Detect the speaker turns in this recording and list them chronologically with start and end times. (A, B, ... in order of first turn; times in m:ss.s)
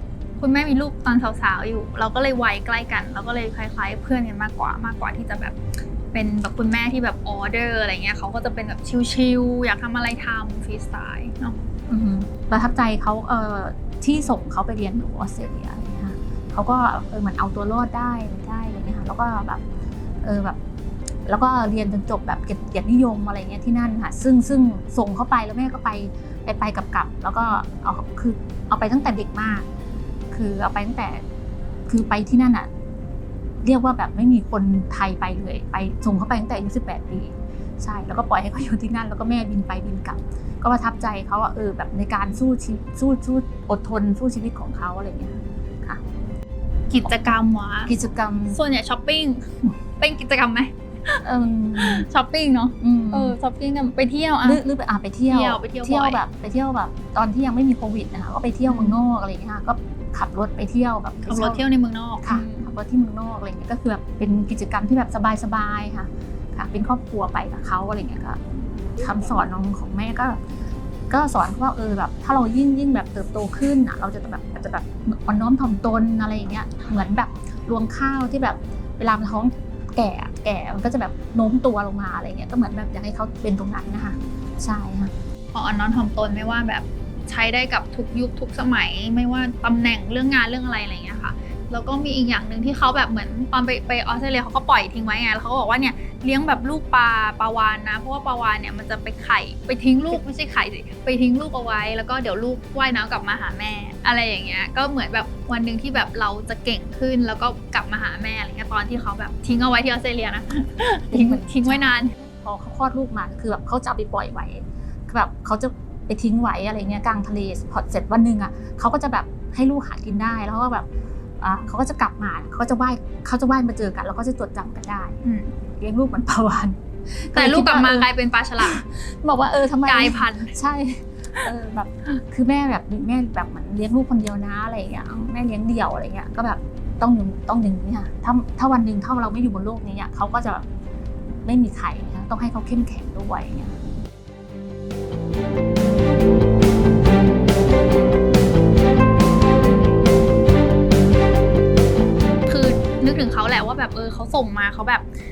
0:00.4-0:05.6 A
0:06.1-0:11.6 A
0:11.9-0:19.6 B
0:20.2-0:20.6 B
0:21.3-0:29.7 B
0:30.3-0:31.2 B
0:31.9-0:32.7 B
0:33.6-0:46.0 B
0:46.9-0:47.9 A
0:47.9-0:48.6 B
0:48.5-0:51.2 A
0:51.2-0:52.1 B
0:51.8-0:54.6 A
0:52.8-0:53.4 B
0:54.4-1:01.6 B
0:55.3-0:56.2 A
0:58.7-0:59.0 A
1:01.3-1:02.8 A
1:02.2-1:10.4 B
1:11.1-1:25.1 B
1:25.5-1:52.1 A
1:51.1-2:00.9 B
2:01.4-2:05.2 B
2:05.2-2:05.5 A
2:05.8-2:20.6 B
2:07.3-2:08.8 A
2:09.8-2:10.5 A
2:21.4-2:23.8 B
2:32.5-2:35.1 A